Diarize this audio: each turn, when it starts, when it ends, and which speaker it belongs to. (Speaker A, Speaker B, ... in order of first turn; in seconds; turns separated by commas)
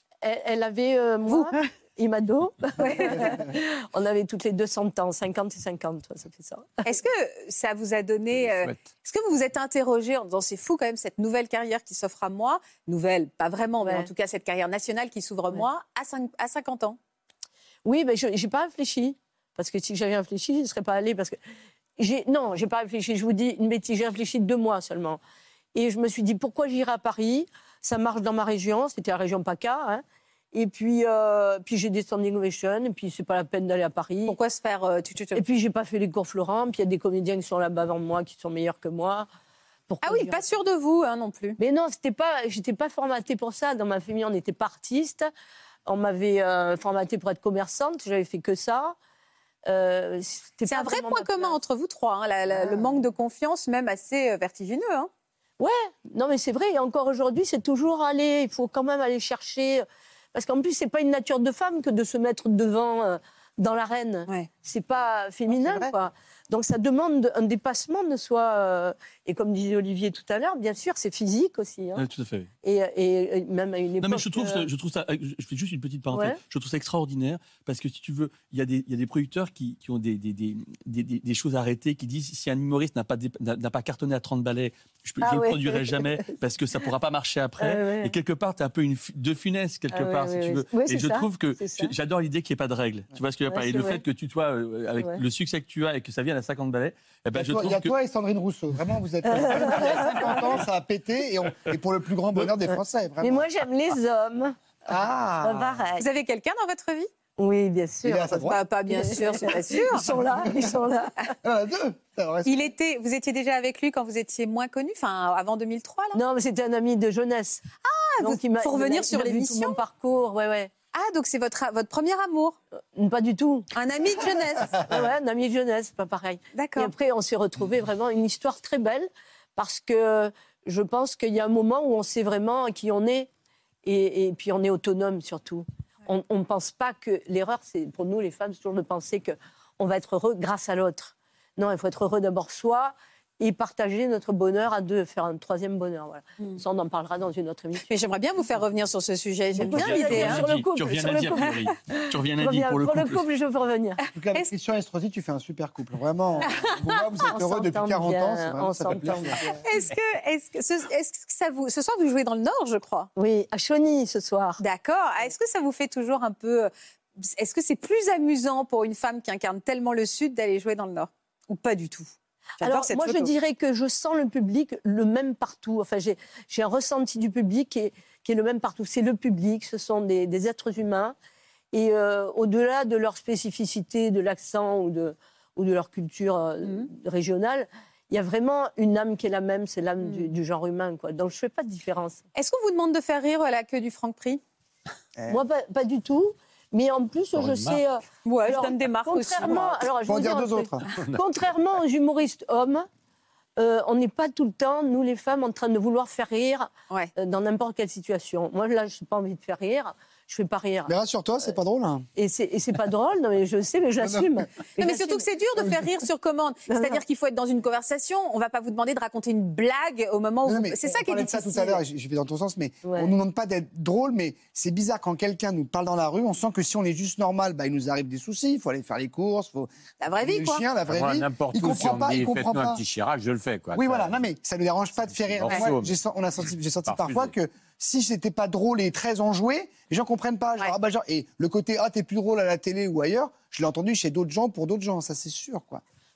Speaker A: 0.2-6.9, Speaker B: 2.8-3.4, Speaker B: 6.8-17.0, Speaker C: 8.3-8.8, Speaker A: 13.8-14.1, Speaker A: 17.8-21.4, Speaker A: 22.0-25.2, Speaker A: 25.7-34.4, Speaker B: 34.2-35.4, Speaker A: 35.3-39.3, Speaker A: 39.9-40.4, Speaker B: 40.0-41.6, Speaker A: 41.6-45.3, Speaker A: 45.9-49.0, Speaker A: 49.6-51.6, Speaker B: 50.6-55.1, Speaker A: 52.5-53.0, Speaker A: 55.6-72.0, Speaker D: 72.0-72.5, Speaker A: 72.6-74.7, Speaker D: 74.0-97.9, Speaker A: 76.1-76.4, Speaker A: 85.2-86.4, Speaker A: 87.6-88.1, Speaker A: 89.9-91.9, Speaker A: 93.5-94.0, Speaker E: 97.3-103.5, Speaker A: 99.2-100.5, Speaker A: 103.2-104.6, Speaker E: 104.9-105.8, Speaker A: 105.4-106.0, Speaker B: 106.0-107.1, Speaker A: 107.4-111.2, Speaker E: 108.0-108.6, Speaker B: 108.4-110.1, Speaker E: 110.4-110.7, Speaker E: 111.4-112.7, Speaker B: 112.4-116.2, Speaker A: 116.1-117.6, Speaker B: 117.8-119.8, Speaker A: 118.2-120.7, Speaker B: 120.9-122.6, Speaker A: 123.0-123.7, Speaker B: 123.7-124.8, Speaker A: 124.7-133.3, Speaker B: 126.5-126.9, Speaker A: 133.8-147.8, Speaker B: 147.8-150.5, Speaker A: 149.6-154.0, Speaker D: 149.6-153.2, Speaker E: 154.1-159.6, Speaker A: 157.3-159.6, Speaker B: 159.5-163.1, Speaker A: 163.2-164.6, Speaker B: 164.6-173.3, Speaker A: 172.6-181.2, Speaker A: 181.7-192.2, Speaker B: 192.3-194.4, Speaker A: 195.3-202.9, Speaker C: 197.3-197.8, Speaker B: 198.2-199.8, Speaker E: 200.1-200.8, Speaker A: 203.6-210.9, Speaker E: 210.8-212.1, Speaker A: 212.2-215.8, Speaker E: 214.0-214.3, Speaker B: 214.8-221.8, Speaker A: 216.7-217.0, Speaker E: 220.4-232.8, Speaker A: 222.8-223.1, Speaker B: 230.0-230.6, Speaker C: 230.9-234.2, Speaker E: 233.7-245.8, Speaker C: 235.1-235.9, Speaker C: 236.9-237.3